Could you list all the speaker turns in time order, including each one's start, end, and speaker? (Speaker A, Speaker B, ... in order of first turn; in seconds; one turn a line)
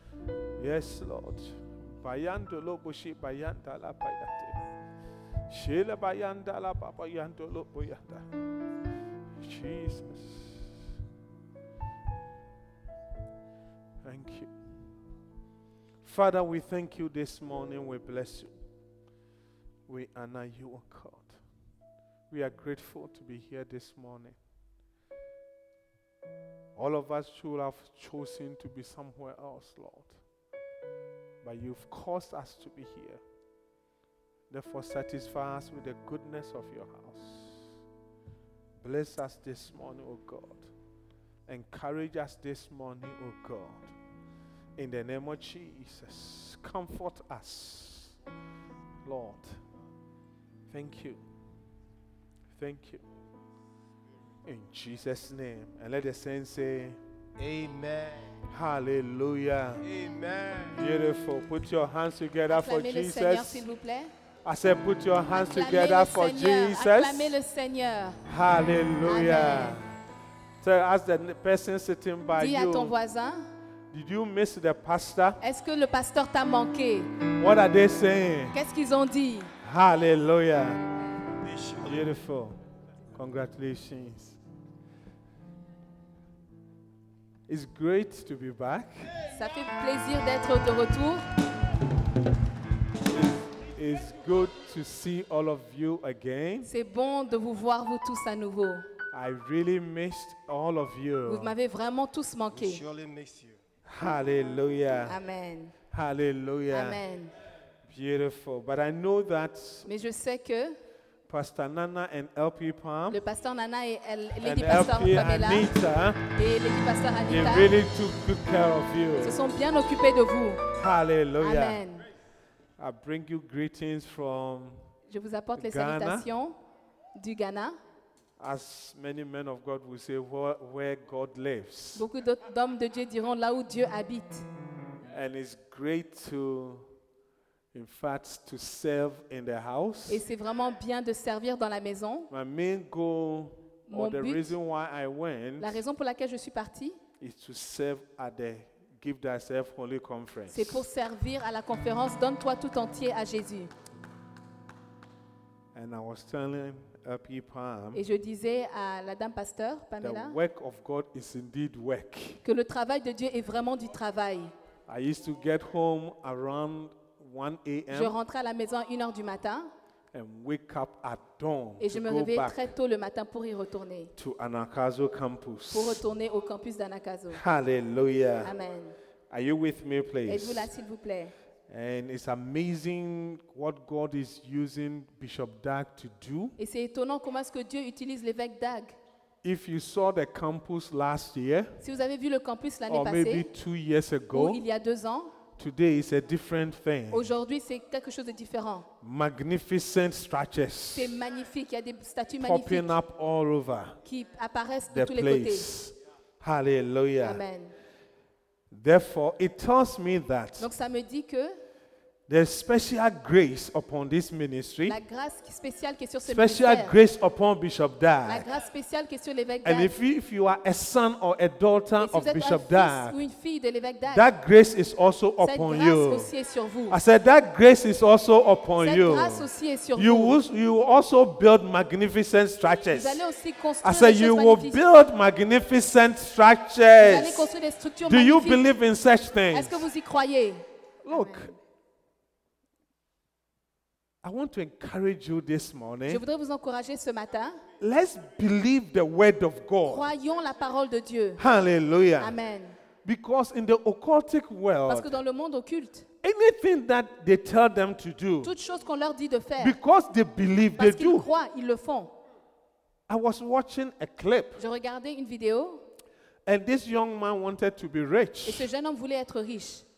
Speaker A: 0.6-4.6
Speaker A: 5.5-8.3
Speaker A: 9.4-10.7
Speaker A: 14.0-14.5
Speaker A: 16.0-18.5
Speaker A: 19.9-21.4
Speaker A: 22.3-24.4
Speaker A: 26.8-30.2
Speaker A: 31.4-33.2
Speaker A: 34.5-37.8
Speaker A: 38.8-40.7
Speaker A: 41.5-44.0
Speaker A: 44.8-48.1
Speaker A: 49.0-49.6
Speaker A: 50.7-51.2
Speaker A: 52.5-53.0
Speaker A: 54.5-57.0
Speaker B: 57.4-58.4
Speaker A: 58.5-59.9
Speaker B: 59.8-60.8
Speaker A: 60.7-63.7
Speaker C: 62.5-64.1
Speaker A: 64.4-67.4
Speaker C: 65.3-68.2
Speaker A: 68.2-69.9
Speaker C: 69.0-69.8
Speaker A: 70.6-72.9
Speaker C: 72.4-73.5
Speaker A: 73.9-75.4
Speaker C: 75.4-77.1
Speaker A: 77.4-78.5
Speaker C: 78.5-79.5
Speaker A: 79.6-80.8
Speaker B: 81.4-82.0
Speaker A: 81.8-82.6
Speaker A: 83.1-84.4
Speaker A: 87.5-89.1
Speaker C: 89.3-91.2
Speaker A: 93.7-96.7
Speaker C: 96.7-98.9
Speaker A: 99.1-101.5
Speaker C: 101.3-102.8
Speaker B: 102.5-103.6
Speaker A: 103.9-105.2
Speaker C: 105.1-105.7
Speaker A: 105.9-107.0
Speaker C: 106.7-107.3
Speaker A: 107.9-109.9
Speaker C: 109.9-110.8
Speaker A: 111.3-113.2
Speaker C: 113.1-115.7
Speaker A: 114.4-116.2
Speaker C: 116.3-117.7
Speaker A: 117.3-119.4
Speaker C: 119.2-120.6
Speaker A: 120.8-121.8
Speaker C: 121.4-122.0
Speaker A: 122.8-124.8
Speaker C: 125.1-126.6
Speaker A: 125.6-126.3
Speaker C: 127.2-127.8
Speaker A: 128.4-132.1
Speaker C: 131.9-134.4
Speaker A: 135.1-136.9
Speaker A: 137.7-140.2
Speaker C: 140.1-142.3
Speaker A: 142.3-145.8
Speaker C: 143.9-144.5
Speaker C: 145.6-147.0
Speaker A: 147.2-150.8
Speaker C: 150.5-153.7
Speaker A: 155.7-158.0
Speaker C: 157.9-160.4
Speaker A: 160.0-162.4
Speaker C: 162.4-164.5
Speaker A: 164.9-168.2
Speaker C: 167.9-169.7
Speaker A: 170.1-172.7
Speaker C: 171.8-174.1
Speaker A: 174.2-176.0
Speaker C: 175.7-177.4
Speaker A: 177.3-178.5
Speaker C: 178.4-178.9
Speaker A: 179.3-180.7
Speaker C: 180.3-181.3
Speaker A: 181.7-186.6
Speaker C: 186.6-189.0
Speaker A: 189.4-191.7
Speaker C: 191.8-193.5
Speaker A: 192.9-194.7
Speaker C: 194.3-195.3
Speaker A: 195.6-197.3
Speaker C: 197.1-198.9
Speaker A: 199.0-201.2
Speaker C: 200.9-202.9
Speaker A: 202.4-204.0
Speaker C: 204.1-205.7
Speaker A: 204.9-207.4
Speaker C: 207.2-207.8
Speaker A: 208.7-210.7
Speaker C: 210.6-211.6
Speaker A: 212.3-215.0
Speaker C: 214.9-216.9
Speaker A: 216.2-218.5
Speaker C: 218.3-219.9
Speaker A: 219.6-223.2
Speaker C: 222.0-224.2
Speaker A: 224.1-226.3
Speaker C: 225.4-227.0
Speaker A: 226.9-233.2
Speaker C: 228.8-230.4
Speaker C: 232.9-234.8
Speaker A: 233.8-237.5
Speaker C: 237.0-238.7
Speaker A: 238.0-239.8
Speaker C: 239.5-241.5
Speaker A: 241.0-241.5
Speaker A: 244.2-246.2
Speaker C: 246.1-247.6
Speaker A: 247.8-250.1
Speaker C: 249.9-251.4
Speaker A: 251.4-252.4
Speaker C: 252.2-252.8
Speaker A: 253.0-255.2
Speaker C: 254.9-256.1
Speaker A: 256.2-258.5
Speaker C: 258.4-259.8
Speaker A: 259.6-261.3
Speaker C: 260.8-262.1
Speaker A: 263.1-264.6
Speaker C: 264.6-265.8
Speaker A: 266.5-268.7
Speaker C: 268.4-269.9